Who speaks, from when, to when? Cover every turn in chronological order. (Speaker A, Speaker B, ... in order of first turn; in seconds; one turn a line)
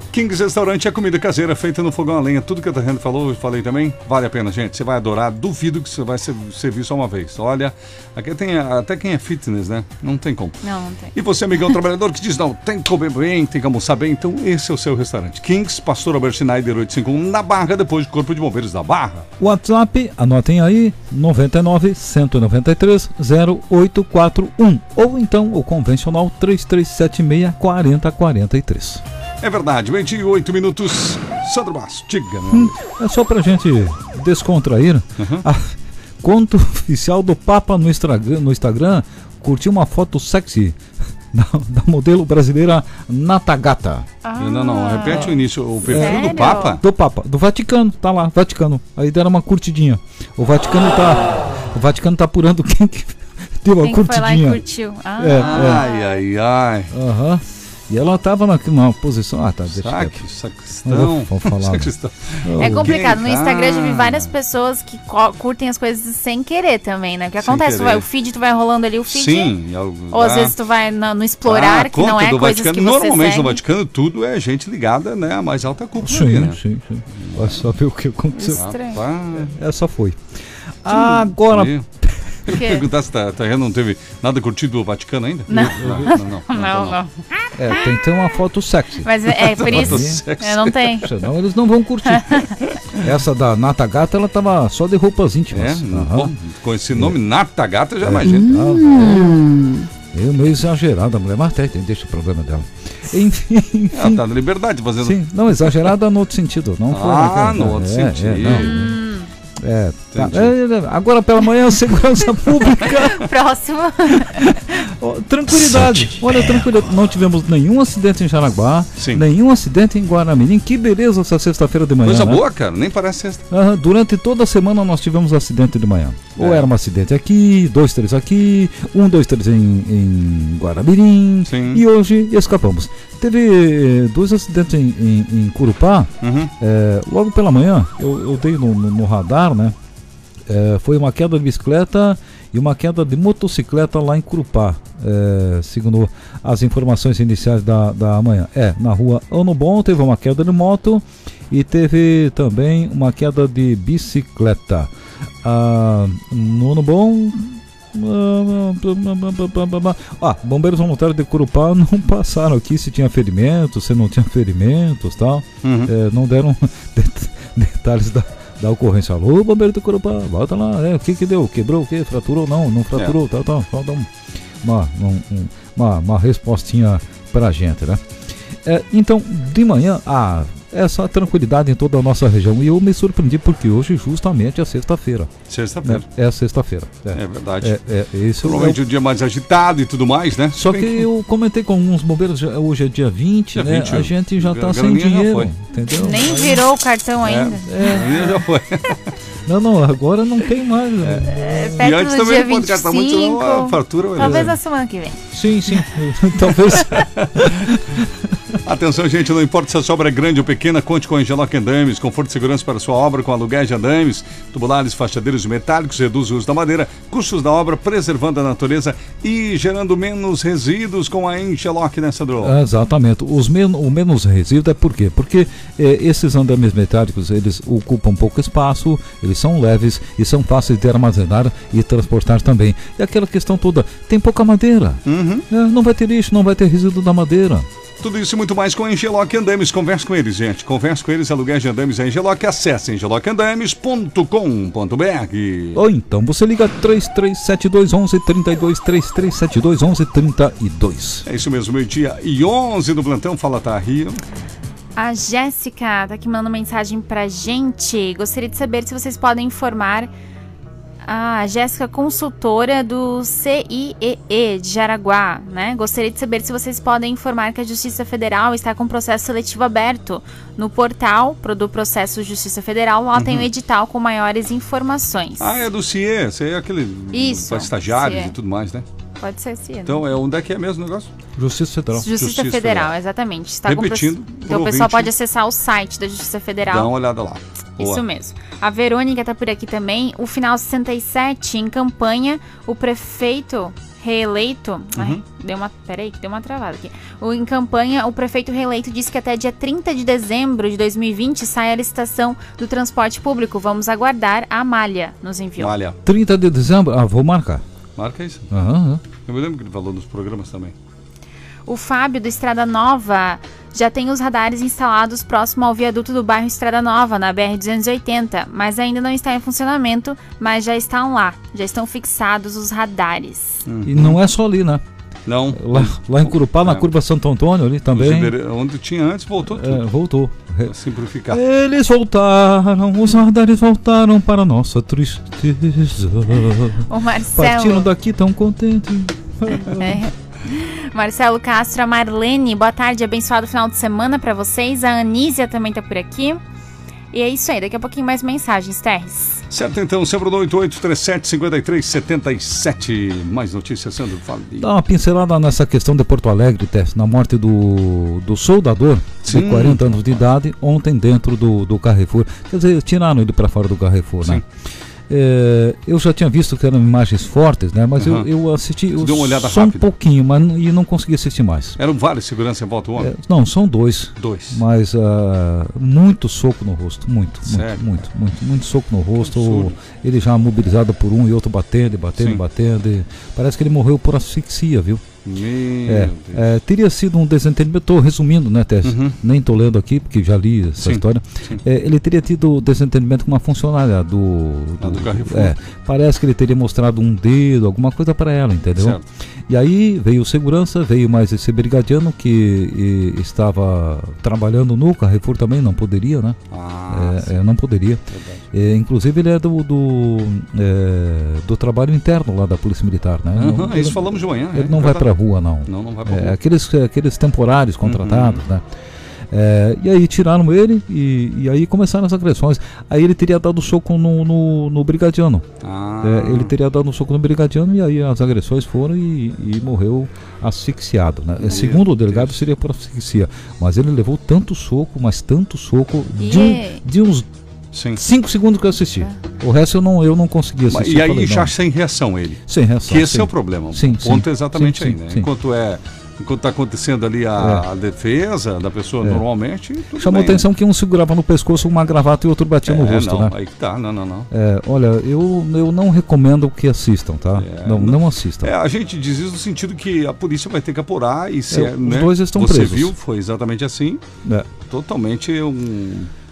Speaker A: 0.1-10.6
Speaker B: 10.6-11.1
Speaker A: 11.2-19.2
Speaker C: 19.4-29.0
Speaker A: 29.4-32.8
Speaker C: 32.5-40.8
Speaker A: 35.2-35.5
Speaker C: 41.3-44.1
Speaker B: 44.2-46.8
Speaker A: 44.4-46.8
Speaker C: 45.8-54.6
Speaker B: 53.8-56.1
Speaker C: 55.2-55.8
Speaker A: 55.3-56.9
Speaker C: 56.9-60.2
Speaker A: 59.7-64.3
Speaker C: 60.9-61.9
Speaker C: 62.4-62.9
Speaker B: 62.6-69.5
Speaker A: 67.4-68.0
Speaker A: 69.1-70.5
Speaker B: 70.1-73.6
Speaker A: 71.5-76.6
Speaker C: 76.0-78.6
Speaker A: 77.2-77.6
Speaker B: 78.3-79.0
Speaker A: 78.5-79.5
Speaker C: 79.4-80.2
Speaker C: 80.8-82.2
Speaker A: 80.9-81.9
Speaker A: 82.4-87.0
Speaker B: 82.5-82.8
Speaker B: 85.5-87.8
Speaker C: 87.6-89.1
Speaker B: 89.0-91.1
Speaker A: 89.3-91.0
Speaker C: 89.6-90.2
Speaker C: 91.0-92.4
Speaker B: 92.1-92.6
Speaker C: 93.0-96.3
Speaker A: 95.5-98.7
Speaker C: 98.0-99.5
Speaker C: 100.1-104.2
Speaker A: 103.9-105.9
Speaker C: 105.0-108.8
Speaker A: 106.9-108.9
Speaker B: 108.4-109.3
Speaker C: 109.6-113.3
Speaker A: 110.1-110.5
Speaker B: 112.8-114.8
Speaker C: 114.4-122.4
Speaker A: 119.0-119.2
Speaker A: 122.0-123.5
Speaker C: 123.5-139.7
Speaker A: 126.4-126.7
Speaker A: 131.5-131.8
Speaker A: 136.2-136.5
Speaker C: 140.5-154.9
Speaker C: 155.4-174.1
Speaker A: 165.6-165.9
Speaker C: 174.6-178.0
Speaker C: 178.7-185.3
Speaker A: 185.5-186.1
Speaker C: 185.8-188.8
Speaker A: 187.1-187.8
Speaker A: 188.4-191.1
Speaker C: 190.5-196.6
Speaker A: 193.5-195.5
Speaker B: 195.9-198.2
Speaker A: 197.2-199.0
Speaker C: 197.7-198.1
Speaker C: 199.5-201.6
Speaker A: 201.0-204.5
Speaker B: 201.3-205.2
Speaker C: 204.2-204.5
Speaker C: 205.3-208.3
Speaker A: 206.9-207.7
Speaker A: 208.7-222.6
Speaker C: 222.4-237.7
Speaker A: 235.1-235.4
Speaker A: 238.0-245.8
Speaker C: 245.8-251.3
Speaker A: 251.2-254.2
Speaker B: 254.9-260.1
Speaker B: 261.1-275.5
Speaker A: 273.2-273.5
Speaker A: 275.4-278.8
Speaker B: 277.1-278.3
Speaker B: 279.2-280.1
Speaker A: 279.8-281.1
Speaker C: 281.4-282.1
Speaker B: 281.9-286.9
Speaker A: 282.1-282.9
Speaker A: 283.7-285.1
Speaker A: 286.7-288.1
Speaker B: 287.8-305.7
Speaker A: 294.9-295.2
Speaker A: 305.6-306.0
Speaker C: 306.1-307.6
Speaker A: 308.0-308.5
Speaker C: 308.5-309.0
Speaker A: 309.2-310.8
Speaker B: 311.7-323.6
Speaker A: 323.7-324.2
Speaker C: 323.8-324.8
Speaker A: 325.3-326.9
Speaker C: 325.5-328.3
Speaker A: 327.9-329.8
Speaker C: 329.4-330.7
Speaker A: 330.7-331.4
Speaker C: 331.3-340.0
Speaker B: 336.9-337.9
Speaker B: 339.7-346.4
Speaker B: 347.1-349.4
Speaker A: 349.5-354.7
Speaker C: 354.6-364.4
Speaker A: 359.2-360.2
Speaker C: 365.1-371.8
Speaker A: 368.0-368.3
Speaker A: 369.0-369.9
Speaker A: 371.8-373.1
Speaker C: 373.0-385.0
Speaker A: 374.2-374.6
Speaker A: 377.4-377.9
Speaker A: 379.2-379.8
Speaker A: 385.2-386.4
Speaker C: 385.9-406.4
Speaker A: 388.8-389.2
Speaker A: 390.8-391.6
Speaker A: 394.8-395.6
Speaker A: 398.8-399.1
Speaker A: 406.5-407.3
Speaker C: 406.9-408.0
Speaker A: 408.1-408.4
Speaker C: 408.5-418.6
Speaker A: 413.4-415.1
Speaker A: 415.7-416.4
Speaker A: 417.8-418.4
Speaker C: 419.3-425.4
Speaker A: 425.6-426.5
Speaker C: 426.0-437.3
Speaker A: 431.4-432.4
Speaker B: 436.2-436.8
Speaker A: 437.7-438.0
Speaker C: 437.9-441.5
Speaker A: 440.7-450.4
Speaker C: 442.5-445.3
Speaker C: 447.4-447.6
Speaker C: 449.9-453.3
Speaker A: 452.7-454.3
Speaker C: 454.3-458.5
Speaker A: 457.4-464.0
Speaker C: 461.5-462.9
Speaker A: 464.7-466.1